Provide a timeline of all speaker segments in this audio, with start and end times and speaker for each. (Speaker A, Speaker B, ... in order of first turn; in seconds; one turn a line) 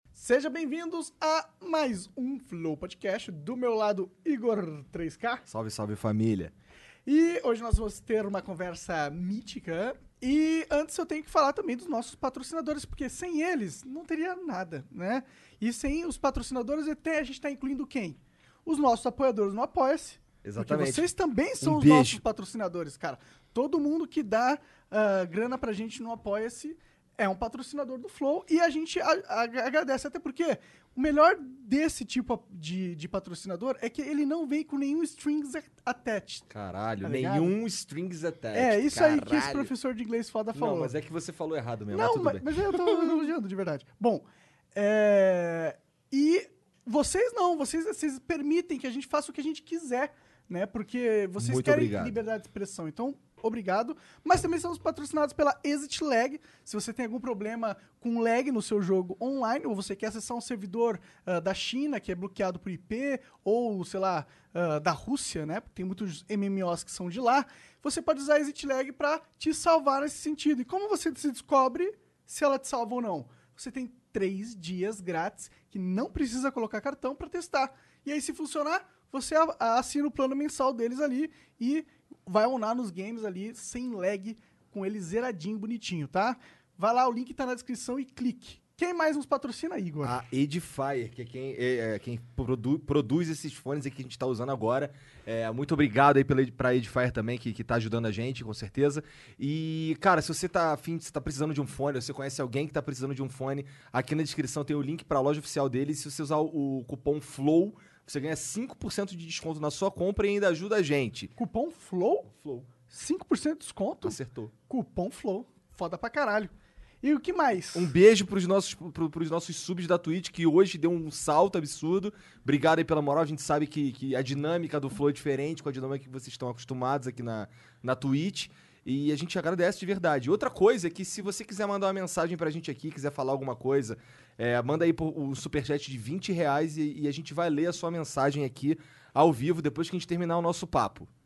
Speaker A: 0.1-5.4
Speaker B: 5.5-6.5
Speaker A: 7.1-36.5
Speaker B: 20.4-21.1
Speaker B: 21.6-22.2
Speaker B: 36.5-39.7
Speaker A: 37.0-37.5
Speaker A: 38.5-40.9
Speaker B: 40.5-43.3
Speaker A: 41.9-90.2
Speaker B: 51.4-52.2
Speaker B: 90.0-111.3
Speaker A: 111.4-112.3
Speaker B: 112.3-112.7
Speaker A: 112.9-117.9
Speaker B: 114.0-114.5
Speaker B: 117.7-141.1